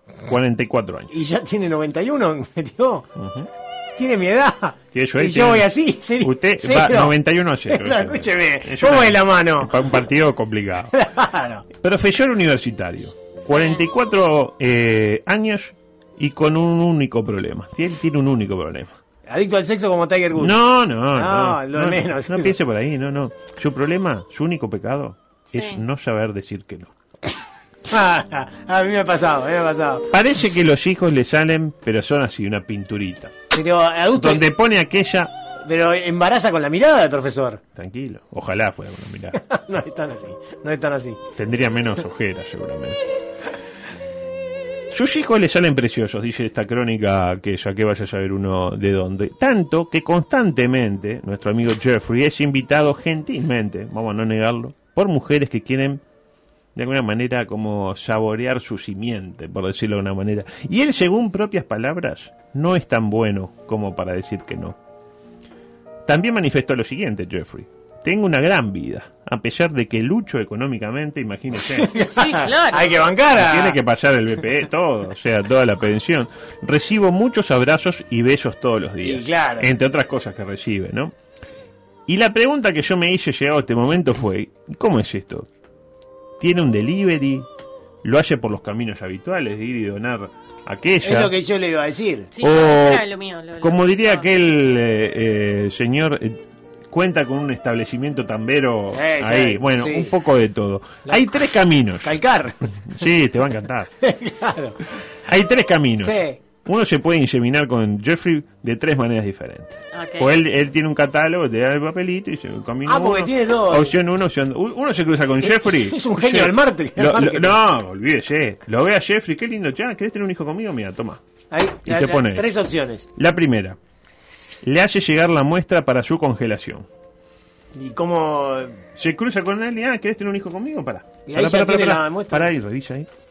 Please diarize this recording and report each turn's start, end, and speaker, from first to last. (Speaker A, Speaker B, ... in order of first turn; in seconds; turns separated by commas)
Speaker A: 0.3-1.1, Speaker B: 1.1-3.1, Speaker A: 3.2-3.5, Speaker B: 4.0-7.1, Speaker A: 4.9-10.9, Speaker B: 7.7-9.8, Speaker B: 10.9-11.6, Speaker A: 11.8-18.9, Speaker C: 13.4-13.9, Speaker B: 19.3-20.6, Speaker A: 20.4-26.9, Speaker B: 21.1-22.6, Speaker C: 25.5-25.8, Speaker B: 27.9-30.0, Speaker A: 30.1-33.3, Speaker B: 33.5-34.5, Speaker A: 34.1-35.3, Speaker B: 35.6-37.6, Speaker A: 37.8-39.4, Speaker B: 39.4-41.2, Speaker A: 41.4-43.0, Speaker A: 44.9-56.0, Speaker A: 56.8-64.8, Speaker A: 66.1-71.9, Speaker B: 71.8-73.8, Speaker C: 72.0-73.1, Speaker A: 73.3-81.1, Speaker B: 79.0-79.7, Speaker A: 82.1-85.5, Speaker A: 86.4-87.5, Speaker A: 88.0-91.3, Speaker B: 91.0-92.3, Speaker C: 92.3-94.3, Speaker A: 92.4-93.1, Speaker A: 93.6-96.4, Speaker A: 96.9-102.1, Speaker B: 98.9-100.1, Speaker B: 101.1-101.4, Speaker B: 102.0-102.6, Speaker A: 102.9-103.9, Speaker B: 104.0-104.8, Speaker A: 105.3-121.2, Speaker B: 106.0-106.4, Speaker C: 109.9-110.4, Speaker B: 112.9-113.9, Speaker B: 115.5-117.6, Speaker B: 121.5-123.1, Speaker A: 121.9-122.5, Speaker A: 123.2-123.8, Speaker A: 124.6-126.9, Speaker B: 127.7-128.8, Speaker A: 128.9-133.1, Speaker B: 131.3-132.5